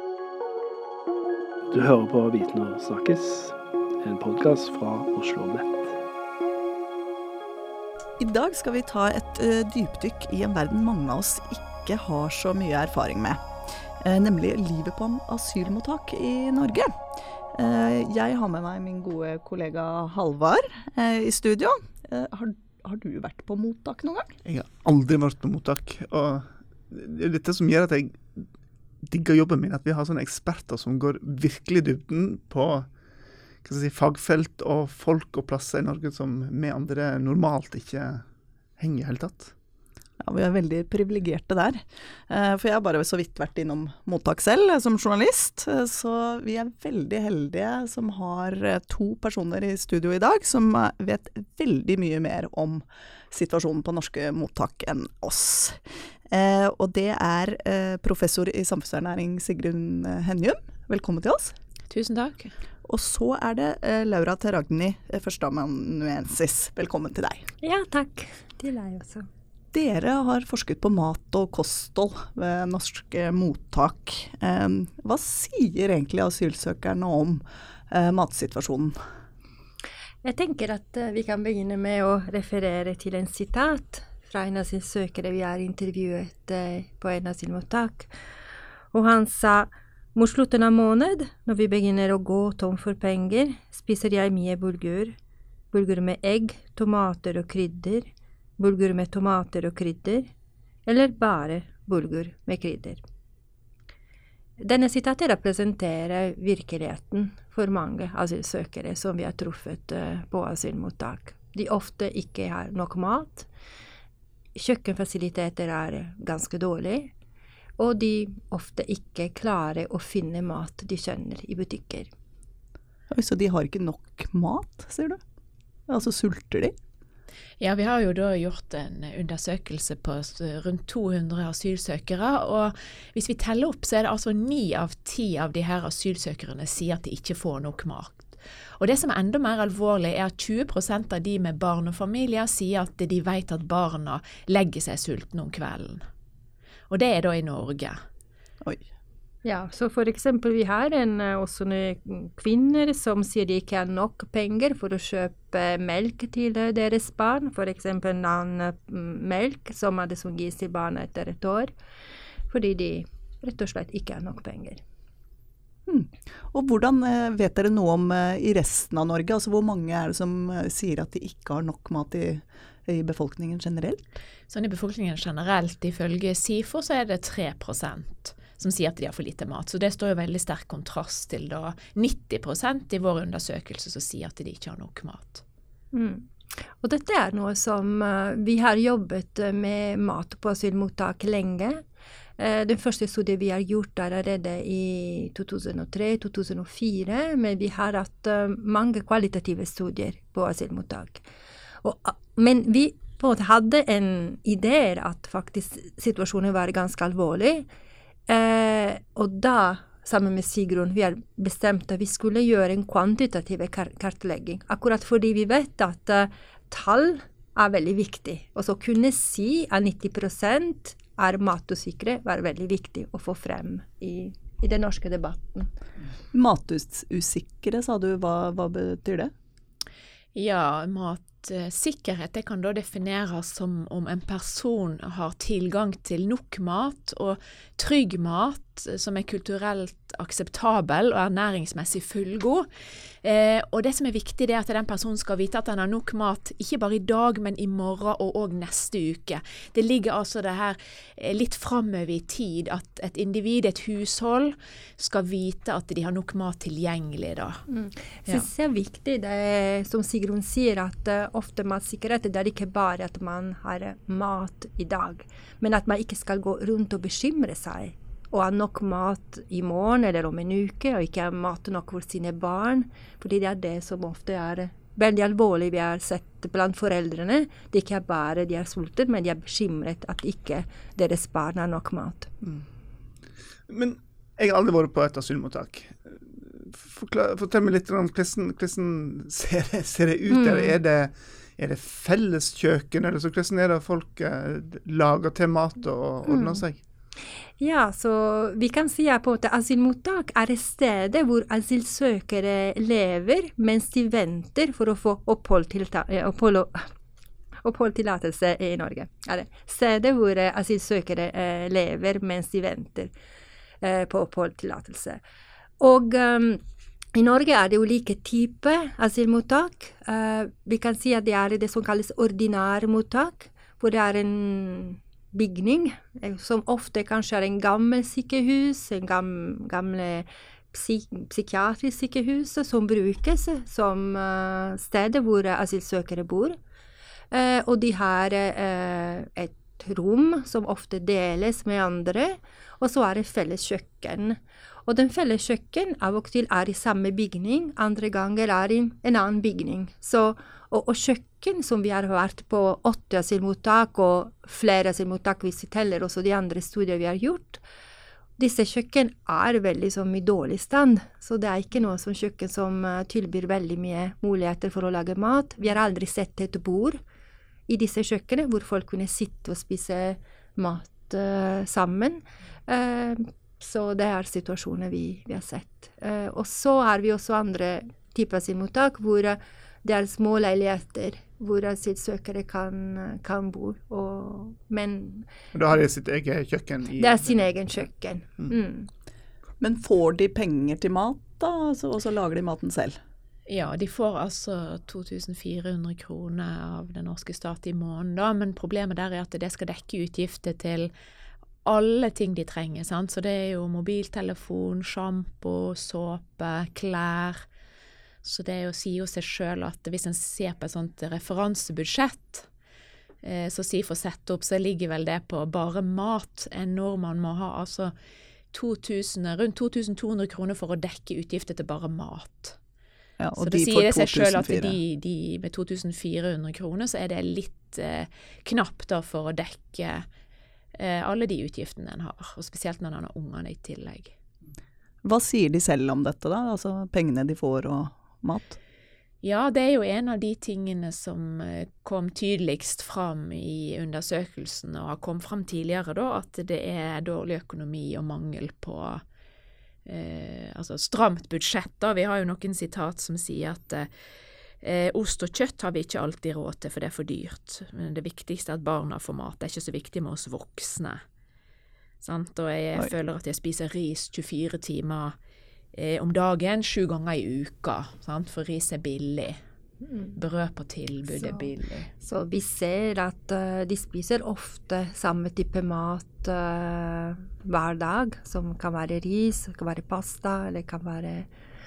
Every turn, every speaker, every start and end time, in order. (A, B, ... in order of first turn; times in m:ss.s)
0:01.7-0:05.9 A
0:08.2-0:13.4 B
0:14.0-0:24.4 B
0:24.4-0:28.4 C
0:29.0-0:32.9 C
0:33.6-0:38.2 C
0:38.8-0:39.5 C
0:40.2-1:01.5 B
1:01.9-1:02.5 D
1:02.8-1:07.5 B
1:07.6-1:09.3 E
1:09.7-1:19.0 B
1:20.2-1:28.1 E
1:28.9-1:35.2 E
1:35.7-1:40.3 E
1:40.8-1:43.0 E
1:44.6-1:53.5 E
1:54.5-1:57.1 E
1:57.8-2:02.1 E
2:03.1-2:05.2 B
2:05.9-2:06.7 B
2:07.6-2:26.0 D
2:26.9-2:28.0 D
2:29.4-2:41.7 E
2:42.5-2:44.8 E
2:45.9-2:54.1 B
2:54.5-3:05.4 D
3:05.9-3:11.8 E
3:12.4-3:21.2 E
3:21.8-3:27.7 E
3:28.3-3:45.7 E
3:46.3-3:49.3 B
3:50.3-4:02.7 D
4:03.2-4:17.6 D
4:17.7-4:42.3 E
4:43.7-4:56.8 C
4:50.3-4:50.7 E
4:56.3-4:56.6 E
4:57.6-5:06.9 E
5:07.6-5:13.1 E
5:13.8-5:15.2 E
5:15.8-5:16.6 E
5:17.1-5:36.6 E
5:37.3-5:57.6 E
5:58.4-6:07.0 E
6:07.7-6:25.3 E
6:25.5-6:27.5 C
6:27.0-6:28.9 E
6:29.6-6:33.0 B
6:33.5-6:40.9 D
6:41.6-6:47.4 D
6:48.2-6:52.5 D
6:53.2-6:57.9 D
6:58.5-7:02.6 D
7:03.2-7:04.8 B
7:03.4-7:10.0 D
7:10.7-7:14.1 D
7:15.0-7:18.6 B
7:19.2-7:29.0 D
7:29.8-7:33.9 D
7:34.6-7:41.0 D
7:42.0-7:45.1 D
7:45.7-7:49.4 D
7:49.8-7:50.1 E
7:50.1-7:51.9 D
7:51.1-7:51.4 E
7:52.0-8:01.3 E